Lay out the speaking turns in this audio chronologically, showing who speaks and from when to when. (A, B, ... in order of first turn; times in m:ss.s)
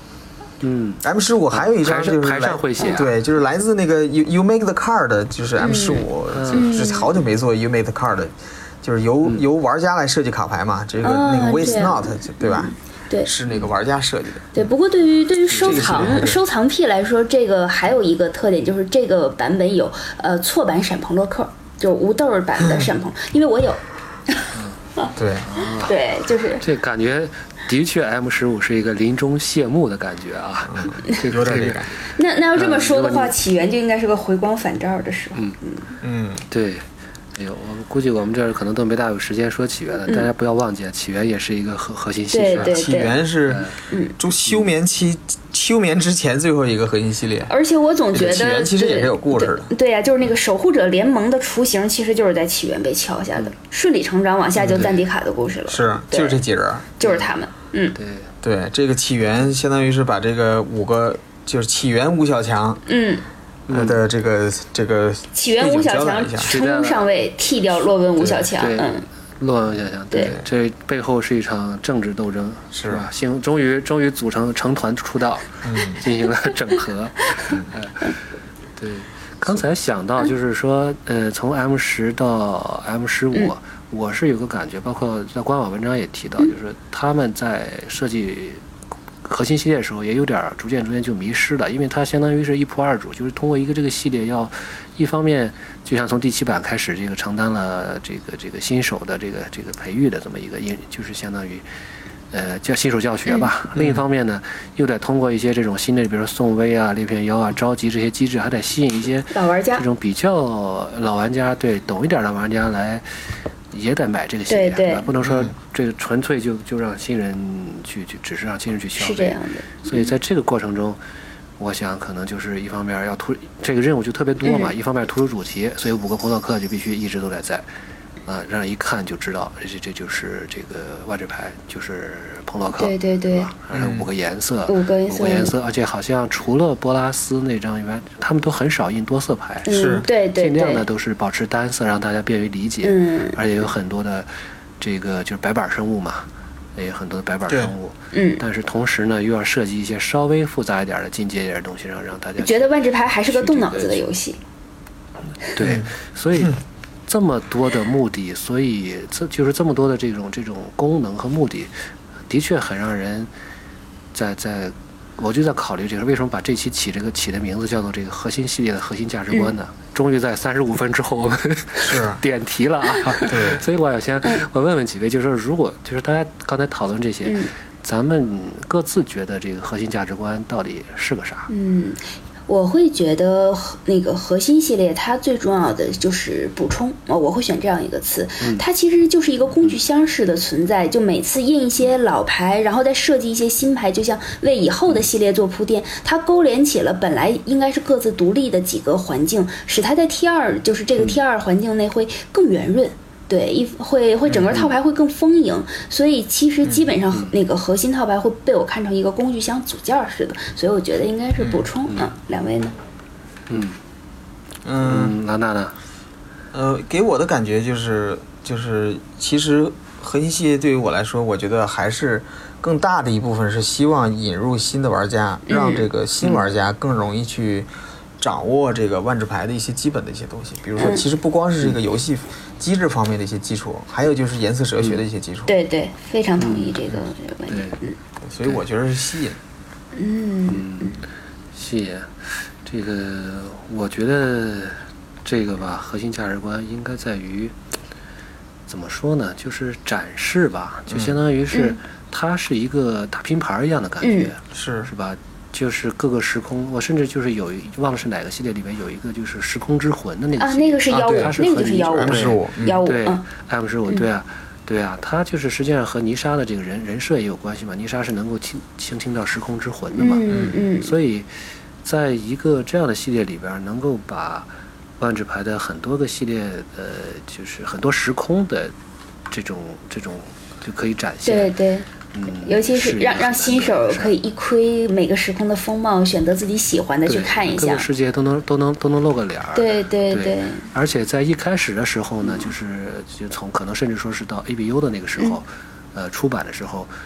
0:00.6-0:03.1 A
0:01.0-0:12.7 B
0:05.6-0:07.2 C
0:06.3-0:06.9 A
0:11.0-0:13.3 C
0:13.2-0:14.6 B
0:14.5-0:24.5 C
0:15.5-0:16.2 A
0:15.6-0:16.4 B
0:22.6-0:22.9 B
0:24.5-0:24.8 A
0:25.1-0:25.6 B
0:25.4-0:25.9 A
0:25.7-0:26.6 C
0:26.6-0:31.9 A
0:30.7-0:31.9 B
0:32.1-0:35.9 C
0:32.5-0:33.3 A
0:36.0-0:36.4 B
0:36.5-0:42.8 A
0:42.3-0:43.2 C
0:42.5-0:47.5 B
0:43.5-0:43.8 A
0:43.9-0:44.1 C
0:47.5-0:56.4 C
0:48.1-0:49.7 B
0:54.5-0:55.0 B
0:54.7-0:54.9 A
0:55.7-0:56.9 B
0:57.0-0:58.0 C
0:57.0-0:57.3 A
0:57.9-0:58.3 A
0:58.4-1:02.8 B
1:02.9-1:03.2 C
1:03.7-1:04.0 A
1:03.7-1:06.6 B
1:05.3-1:09.0 C
1:06.4-1:07.1 A
1:08.2-1:08.5 B
1:08.6-1:18.2 A
1:12.7-1:13.0 B
1:15.6-1:16.0 B
1:18.8-1:28.6 A
1:29.2-1:41.6 A
1:42.3-1:53.0 A
1:43.8-1:44.0 B
1:49.3-1:49.8 C
1:53.7-2:01.0 A
1:54.5-1:55.1 C
1:55.2-1:55.5 B
1:59.0-2:00.1 C
2:01.6-2:07.6 A
2:04.4-2:04.7 C
2:08.2-2:19.7 A
2:12.8-2:13.5 C
2:13.7-2:14.1 B
2:14.7-2:15.5 C
2:19.6-2:20.8 C
2:19.7-2:20.1 B
2:20.3-2:32.8 A
2:22.8-2:23.4 C
2:28.1-2:28.4 C
2:32.4-2:34.4 C
2:33.3-2:34.0 A
2:35.5-2:41.7 A
2:35.6-2:35.9 B
2:42.3-2:43.3 A
2:44.1-3:01.5 A
2:51.8-2:52.2 B
2:53.2-2:53.6 B
2:57.2-2:57.5 C
3:01.5-3:32.7 C
3:24.2-3:24.7 A
3:26.6-3:26.9 B
3:31.4-3:31.7 B
3:33.5-3:33.8 A
3:34.6-3:35.2 B
3:34.8-3:35.8 A
3:36.5-3:55.5 B
3:45.5-3:45.9 C
3:50.8-3:51.0 C
3:55.5-3:58.0 C
3:56.4-3:57.8 A
3:58.2-3:59.4 B
3:59.9-4:01.0 C
4:00.5-4:01.0 A
4:01.5-4:07.6 A
4:08.7-4:31.3 A
4:10.9-4:11.2 B
4:11.5-4:11.8 C
4:14.0-4:14.3 C
4:14.5-4:14.9 B
4:20.4-4:23.2 C
4:20.9-4:22.8 B
4:30.0-4:31.0 C
4:30.3-4:30.5 B
4:31.8-4:38.7 A
4:39.3-4:41.5 A
4:41.2-4:47.9 C
4:42.1-4:44.2 A
4:47.0-4:56.9 A
4:49.5-4:50.7 C